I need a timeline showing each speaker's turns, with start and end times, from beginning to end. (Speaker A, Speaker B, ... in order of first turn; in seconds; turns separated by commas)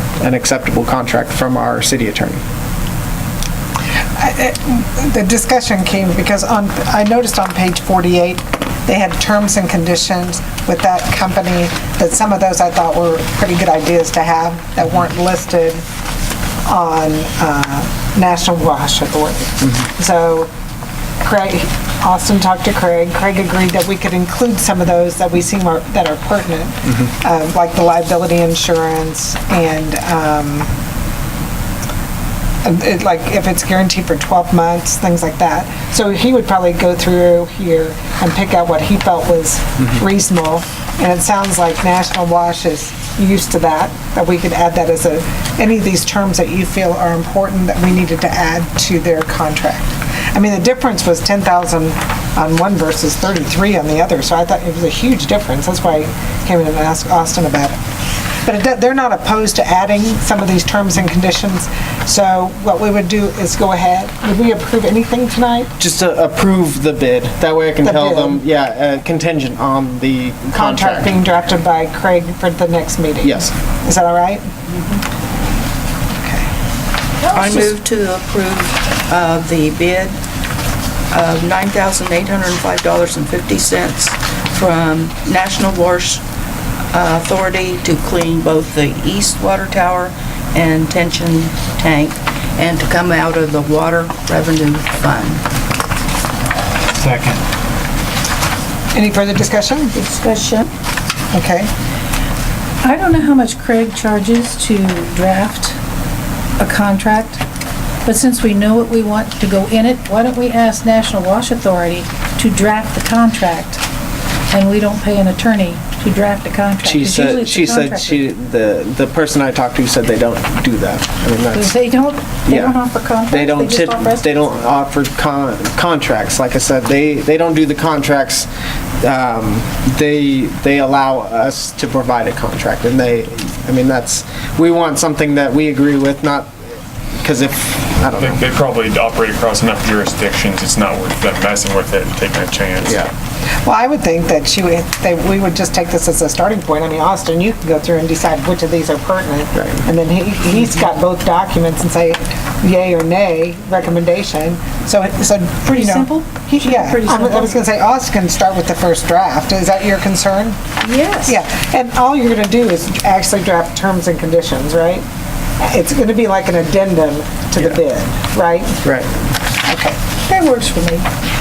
Speaker A: 0.2-2.4, Speaker B: 4.2-15.8, Speaker B: 16.6-20.5, Speaker B: 21.2-30.7, Speaker B: 32.6-57.8, Speaker B: 58.4-65.7, Speaker A: 65.8-71.2, Speaker B: 67.8-68.4, Speaker B: 70.5-74.5, Speaker A: 73.2-73.5, Speaker B: 76.1-76.5, Speaker C: 77.3-80.1, Speaker C: 81.1-86.2, Speaker C: 86.9-95.4, Speaker D: 96.9-97.4, Speaker B: 98.9-99.9, Speaker C: 99.9-100.7, Speaker B: 101.3-101.7, Speaker E: 102.8-105.8, Speaker E: 106.6-107.4, Speaker E: 108.0-113.8, Speaker E: 114.5-118.3, Speaker A: 116.8-121.7, Speaker E: 121.5-124.3, Speaker A: 122.5-128.5, Speaker A: 129.0-136.5, Speaker A: 137.2-138.4, Speaker D: 138.1-143.1, Speaker A: 142.8-143.1, Speaker B: 143.6-160.6, Speaker A: 149.5-149.8, Speaker E: 155.7-157.7, Speaker E: 160.8-161.4, Speaker B: 161.2-165.0, Speaker B: 165.6-168.8, Speaker A: 168.8-169.1, Speaker B: 169.6-170.7, Speaker E: 170.3-171.1